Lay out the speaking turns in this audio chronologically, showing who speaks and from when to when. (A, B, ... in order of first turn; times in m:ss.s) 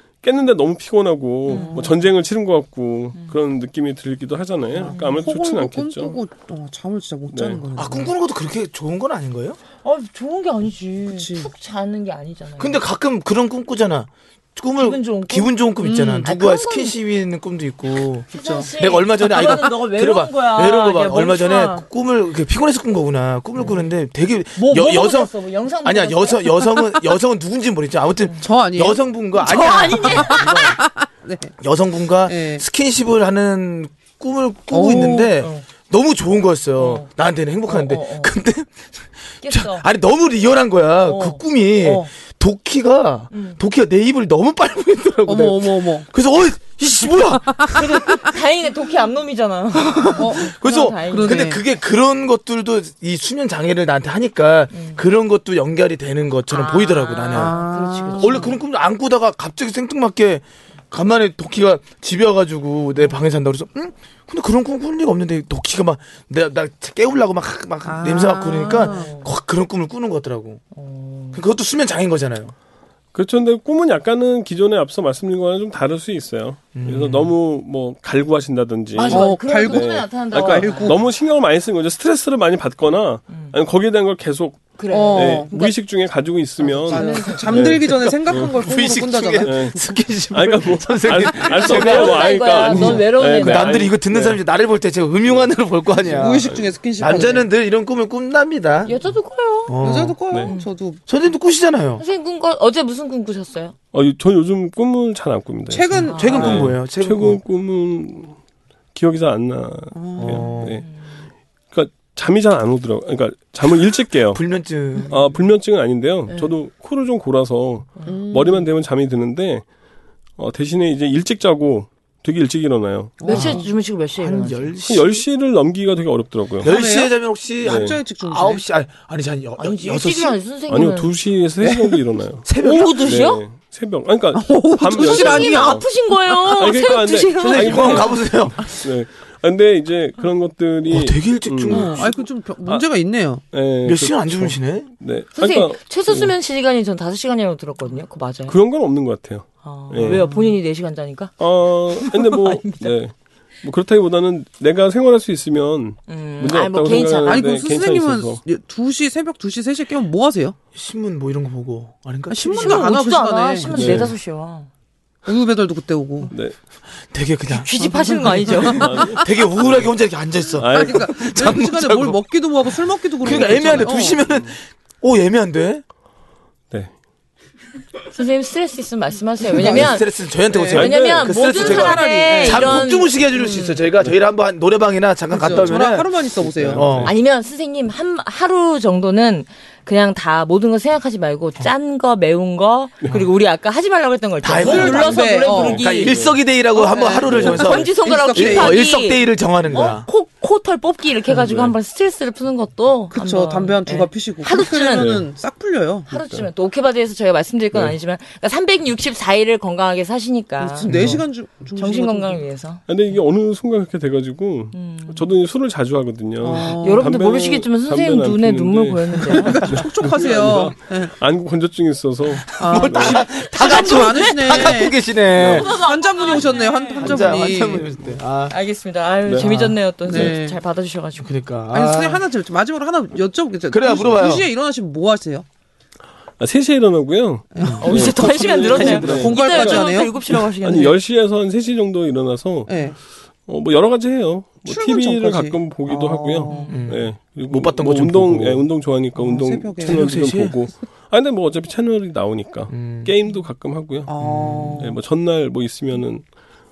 0:00.2-0:06.2 A
0:01.5-0:01.9 B
0:01.5-0:02.0 C
0:04.7-0:08.1 C
0:04.9-0:05.2 B
0:07.3-0:07.6 A
0:07.7-0:09.6 D
0:09.8-0:12.8 B
0:11.1-0:11.5 C
0:12.6-0:30.8 D
0:14.8-0:17.0 B
0:15.8-0:16.3 C
0:18.3-0:21.8 B
0:18.4-0:18.6 C
0:24.6-0:26.7 B
0:28.4-0:29.0 C
0:29.4-0:30.8 B
0:30.0-0:31.5 C
0:31.6-0:48.0 D
0:32.2-0:32.6 C
0:34.7-0:35.3 C
0:35.1-0:35.6 B
0:36.8-0:37.1 B
0:37.7-0:38.3 B
0:39.4-0:39.8 B
0:41.0-0:42.1 B
0:43.3-0:43.6 B
0:45.2-0:46.1 C
0:47.7-0:51.6 B
0:49.7-1:10.6 D
0:50.2-0:50.5 C
0:51.1-0:51.6 C
0:54.7-0:55.0 B
0:56.5-0:58.6 B
0:57.3-0:58.6 C
1:07.8-1:09.1 C
1:08.8-1:09.3 B
1:10.7-1:11.4 B
1:11.3-1:12.5 D
1:13.1-1:28.6 A
1:16.7-1:17.4 D
1:18.9-1:21.0 B
1:19.1-1:21.0 C
1:23.3-1:23.5 B
1:24.8-1:25.5 B
1:24.9-1:25.7 C
1:26.6-1:29.8 C
1:26.9-1:27.8 B
1:28.3-1:38.9 D
1:29.4-1:34.4 A
1:31.5-1:33.9 B
1:35.3-1:36.7 A
1:36.0-1:37.5 C
1:38.8-1:39.8 B
1:39.7-1:40.2 D
1:39.8-1:41.0 C
1:41.1-1:42.0 D
1:42.0-1:43.7 B
1:43.9-1:48.4 A
1:45.7-1:46.8 C
1:45.9-1:47.4 D
1:46.1-1:46.5 B
1:48.9-1:50.8 A
1:49.9-1:50.6 C
1:50.2-1:50.8 D
1:51.7-1:54.4 A
1:54.3-1:55.4 D
1:55.1-1:59.6 A
1:58.0-1:58.7 C
2:00.4-2:03.2 A
2:03.2-2:03.7 C
2:03.2-2:04.7 B
2:03.3-2:05.2 D
2:04.8-2:06.7 A
2:06.6-2:10.4 D
2:06.6-2:08.6 C
2:07.6-2:08.0 A
2:09.6-2:11.2 B
2:10.7-2:15.9 A
2:11.6-2:12.0 C
2:12.4-2:13.2 D
2:12.6-2:13.4 B
2:14.3-2:15.8 C
2:14.9-2:18.2 B
2:16.4-2:22.1 A
2:17.4-2:18.8 D
2:20.9-2:22.2 D
2:21.7-2:23.4 C
2:23.5-2:26.3 A
2:23.8-2:24.9 D
2:25.3-2:28.6 B
2:28.5-2:30.2 A
2:29.6-2:31.4 B
2:30.1-2:30.4 C
2:31.4-2:38.4 A
2:31.9-2:32.9 B
2:36.1-2:37.5 B
2:36.8-2:40.6 C
2:40.7-2:43.0 D
2:42.3-2:44.0 C
2:42.6-2:44.7 B
2:43.7-2:44.2 D
2:43.7-2:44.1 A
2:45.2-2:46.3 C
2:46.3-2:46.6 A
2:47.1-2:47.8 D
2:47.5-2:49.1 B
2:47.8-2:48.9 C
2:48.6-2:49.9 A
2:48.7-2:52.2 D
2:50.5-2:51.3 A
2:50.7-2:54.2 C
2:53.2-2:55.8 D
2:53.2-2:54.5 A
2:58.1-3:00.1 B
2:59.5-3:03.8 C
2:59.5-3:07.1 D
3:00.7-3:03.2 B
3:00.7-3:02.0 A
3:05.3-3:06.9 C
3:06.4-3:07.1 A
3:07.0-3:25.2 B
3:14.4-3:20.1 D
3:14.6-3:15.9 C
3:15.9-3:16.4 A
3:16.7-3:18.9 C
3:17.3-3:17.7 A
3:21.3-3:21.7 A
3:23.1-3:26.1 C
3:24.9-3:25.2 A
3:26.1-3:31.2 B
3:26.1-3:26.5 A
3:30.6-3:32.4 C
3:30.8-3:31.2 D
3:30.9-3:31.2 A
3:31.8-3:32.8 B
3:32.9-3:43.3 A
3:34.7-3:35.3 B
3:36.4-3:37.1 C
3:36.8-3:39.8 B
3:39.3-3:41.1 C
3:42.5-3:45.8 D
3:42.6-3:47.9 C
3:45.3-3:45.7 A
3:45.5-3:47.4 B
3:47.0-3:48.5 D
3:48.5-3:51.3 B
3:49.4-3:50.4 D
3:50.1-3:50.6 C
3:51.2-3:52.2 D
3:51.7-3:55.4 C
3:53.7-3:54.5 D
3:56.4-4:02.7 A
3:57.5-4:00.1 C
3:57.7-4:01.0 B
4:02.7-4:03.0 C
4:03.5-4:14.1 A
4:04.7-4:06.8 C
4:06.5-4:06.9 B
4:06.7-4:08.7 D
4:09.2-4:10.0 C
4:09.8-4:10.6 D
4:12.7-4:13.1 D
4:14.1-4:15.0 C
4:14.2-4:14.8 D
4:14.8-4:16.2 A